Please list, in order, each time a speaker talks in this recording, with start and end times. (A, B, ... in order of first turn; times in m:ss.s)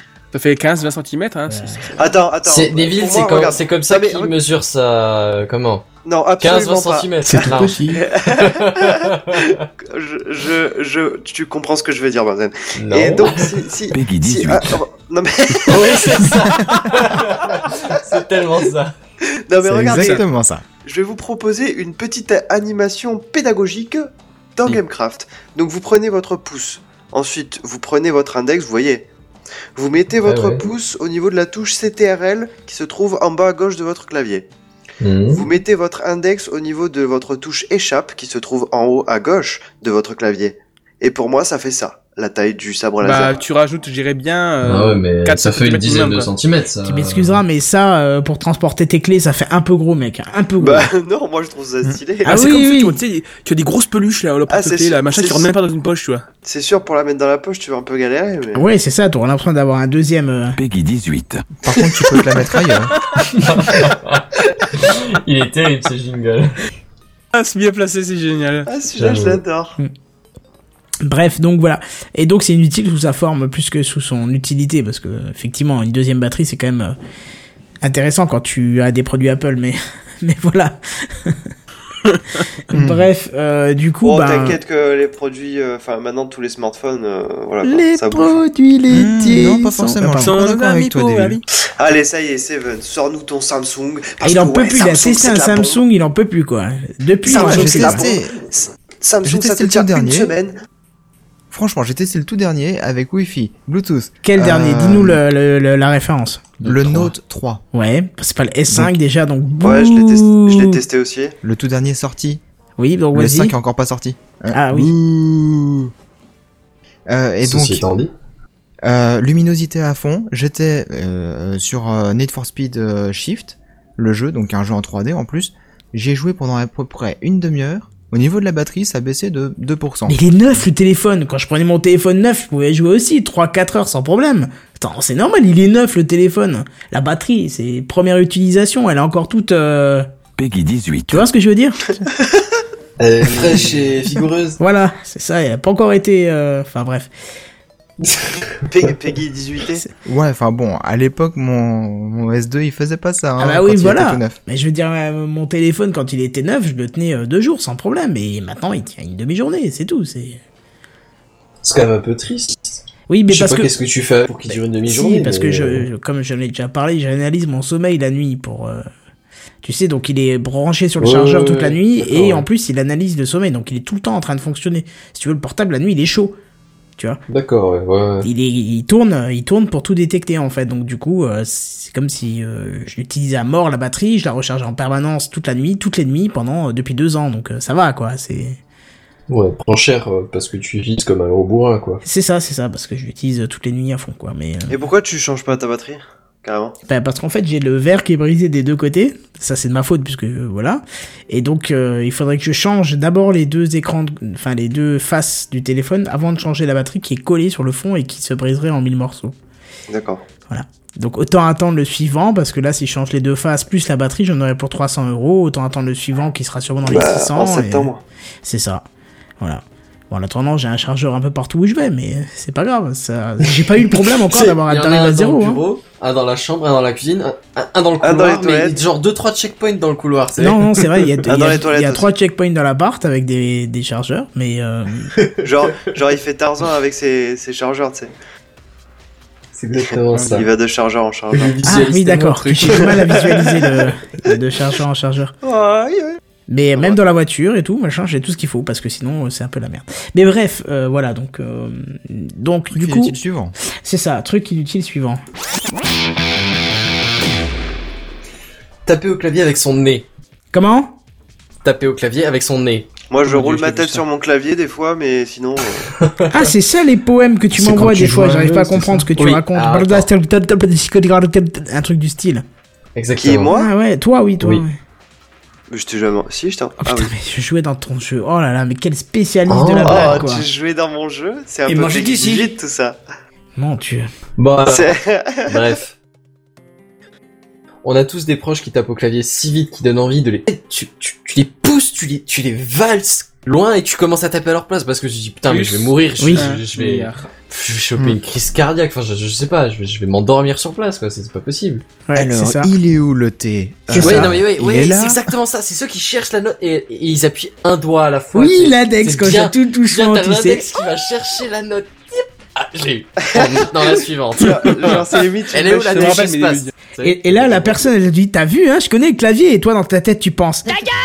0:00.3-0:01.9 A
0:01.5-0:01.8 B
0:02.0-0:04.3 C
0:02.4-0:05.8 D
0:06.0-0:16.0 C
0:06.4-0:09.7 D
0:12.7-0:13.5 D
0:13.9-0:14.8 E
0:15.6-0:18.9 D
0:19.5-0:20.2 C
0:19.6-0:20.6 F
0:19.9-0:20.2 A
0:20.8-0:29.1 C
0:29.8-0:34.4 C
0:30.2-0:30.7 D
0:35.0-0:35.4 D
0:35.3-0:43.4 C
0:43.0-0:46.3 A
0:44.6-0:47.4 D
0:46.8-0:50.9 B
0:50.6-0:52.4 C
0:52.2-0:53.0 B
0:52.2-0:56.2 A
0:54.5-0:55.5 C
0:56.4-0:58.6 C
0:58.5-1:00.6 B
1:00.6-1:01.4 E
1:01.6-1:02.9 F
1:02.9-1:03.4 A
1:03.3-1:06.6 D
1:07.3-1:08.7 A
1:08.7-1:09.8 C
1:09.0-1:09.4 D
1:11.0-1:17.0 B
1:17.8-1:21.5 B
1:22.0-1:22.4 A
1:22.7-1:24.6 B
1:22.7-1:23.1 F
1:24.0-1:28.4 C
1:27.6-1:30.4 B
1:28.9-1:31.4 F
1:30.0-1:31.4 A
1:31.8-1:35.8 C
1:34.2-1:38.0 B
1:37.2-1:40.5 C
1:37.2-1:38.3 F
1:39.2-1:40.3 F
1:41.5-1:45.2 F
1:44.2-1:46.5 B
1:46.6-1:47.6 F
1:47.7-1:50.8 B
1:49.6-1:51.3 C
1:51.4-1:52.4 F
1:52.8-1:53.6 B
1:53.1-1:55.8 F
1:54.5-1:54.9 B
1:57.1-1:57.9 F
1:57.4-1:58.1 D
1:58.8-2:10.2 F
2:10.0-2:20.1 B
2:20.4-2:21.2 E
2:21.1-2:21.8 B
2:23.0-2:24.6 D
2:24.6-2:27.1 B
2:28.7-2:29.8 C
2:30.0-2:34.4 F
2:33.4-2:40.4 B
2:41.6-2:45.9 D
2:43.1-2:43.7 B
2:44.5-2:48.9 B
2:49.6-2:56.4 B
2:51.0-2:52.4 D
2:57.3-2:58.3 D
2:58.2-3:08.6 B
3:09.3-3:12.0 D
3:12.0-3:14.7 B
3:14.7-3:16.7 C
3:16.9-3:29.3 B
3:29.9-3:30.2 C
3:30.5-3:37.9 B
3:36.8-3:38.0 C
3:38.4-3:38.8 B
3:39.4-3:45.6 B
3:43.9-3:51.2 D
3:48.0-3:48.8 C
3:50.4-3:55.1 B
3:51.2-3:52.1 C
3:55.2-3:55.9 D
3:55.4-3:58.1 C
3:59.5-4:00.5 D
4:00.1-4:00.4 A
4:00.3-4:01.5 C
4:01.3-4:02.9 D
4:01.6-4:05.3 B
4:05.4-4:06.2 C
4:06.5-4:13.2 B
4:12.7-4:13.5 F
4:13.8-4:15.2 B
4:18.8-4:20.0 D
4:20.5-4:21.0 B
4:21.6-4:22.9 D
4:23.1-4:25.9 C
4:23.2-4:24.0 A
4:26.0-4:26.3 D
4:26.3-4:32.4 B
4:27.6-4:30.1 D
4:33.0-4:33.5 D
4:33.2-4:33.7 C
4:33.5-4:34.8 B
4:35.7-4:37.1 C
4:36.8-4:40.4 B
4:39.5-4:40.3 D
4:39.8-4:43.0 C
4:41.8-4:42.4 A
4:43.6-4:44.1 B
4:44.4-4:45.9 D
4:44.6-4:45.6 C
4:47.8-5:01.8 D
4:55.4-4:57.3 A
4:56.2-4:56.5 B
5:02.0-5:02.7 B
5:02.1-5:05.3 F
5:03.9-5:04.3 B
5:03.9-5:17.8 D
5:08.3-5:10.6 B
5:13.2-5:13.6 C
5:14.4-5:16.2 C
5:15.9-5:16.7 A
5:17.0-5:20.8 B